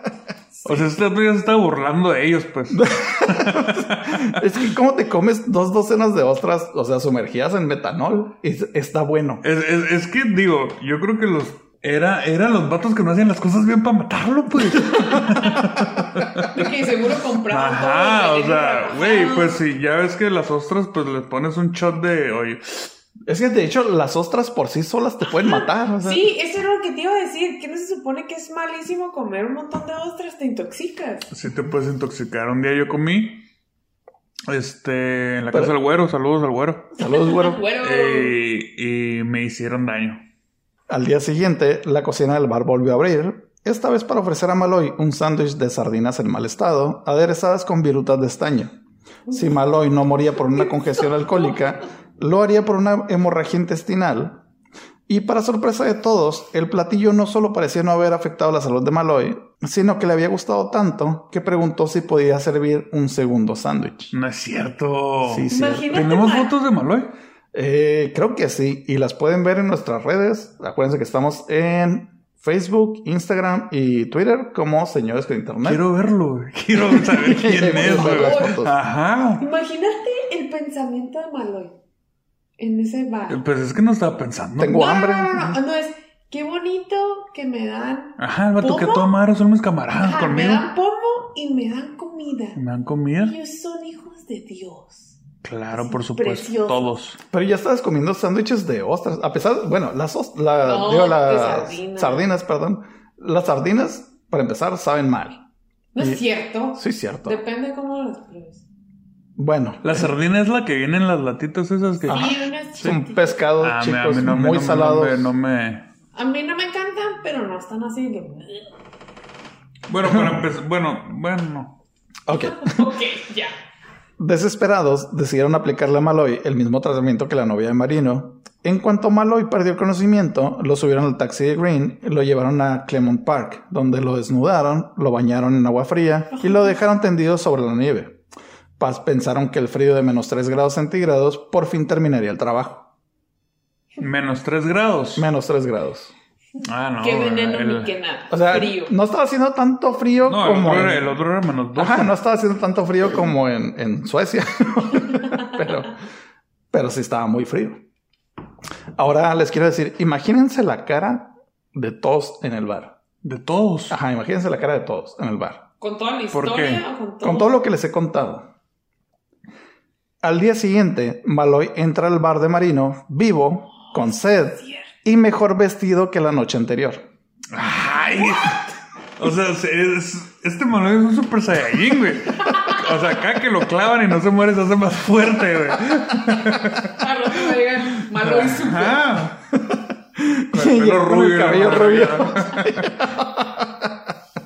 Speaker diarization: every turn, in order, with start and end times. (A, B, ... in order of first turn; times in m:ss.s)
0:00.6-0:04.3 A
0:02.7-0:09.4 B
0:09.4-0:16.6 A
0:14.9-0:15.6 C
0:16.4-0:19.6 C
0:17.5-0:22.9 A
0:23.3-0:26.3 B
0:25.4-0:31.3 C
0:31.3-0:33.4 A
0:34.5-0:36.9 A
0:37.0-0:37.6 B
0:37.0-0:38.4 C
0:37.8-0:40.2 A
0:40.9-0:48.8 B
0:49.3-0:54.4 B
0:55.1-1:04.1 B
1:04.1-1:07.1 A
1:05.2-1:06.0 B
1:05.5-1:06.5 C
1:07.5-1:15.8 B
1:15.6-1:19.4 A
1:16.8-1:18.7 B
1:17.6-1:18.6 C
1:19.4-1:21.7 C
1:22.6-1:23.4 C
1:23.3-1:24.9 A
1:24.6-1:25.6 B
1:24.7-1:29.2 C
1:28.2-1:30.7 A
1:30.0-1:32.6 C
1:32.5-1:33.3 A
1:33.2-1:35.2 C
1:35.4-1:37.2 A
1:35.7-1:36.8 C
1:37.3-1:45.4 B
1:40.6-1:42.3 C
1:45.9-1:48.6 C
1:46.7-1:47.4 B
1:49.4-1:50.1 B
1:49.8-1:52.4 A
1:52.0-1:55.3 B
1:52.1-1:53.4 C
1:53.6-1:55.8 A
1:56.1-1:58.7 C
1:59.9-2:01.8 A
2:00.0-2:00.5 B
2:02.3-2:02.9 B
2:02.4-2:03.5 C
2:04.2-2:18.2 B
2:18.8-2:22.9 B
2:24.0-2:25.3 A
2:25.1-2:26.1 B
2:26.6-2:27.9 A
2:27.0-2:28.9 C
2:28.3-2:31.1 B
2:30.2-2:32.2 A
2:31.7-2:36.0 B
2:36.7-2:37.8 B
2:39.0-2:42.9 B
2:43.2-2:44.0 A
2:43.9-2:45.6 B
2:45.8-2:47.6 C
2:46.3-2:46.8 A
2:47.2-2:48.5 B
2:50.2-2:57.0 B
2:53.9-2:54.9 C
2:57.5-3:09.5 A
3:02.4-3:02.8 C
3:07.0-3:09.2 C
3:10.2-3:14.1 B
3:10.5-3:12.9 A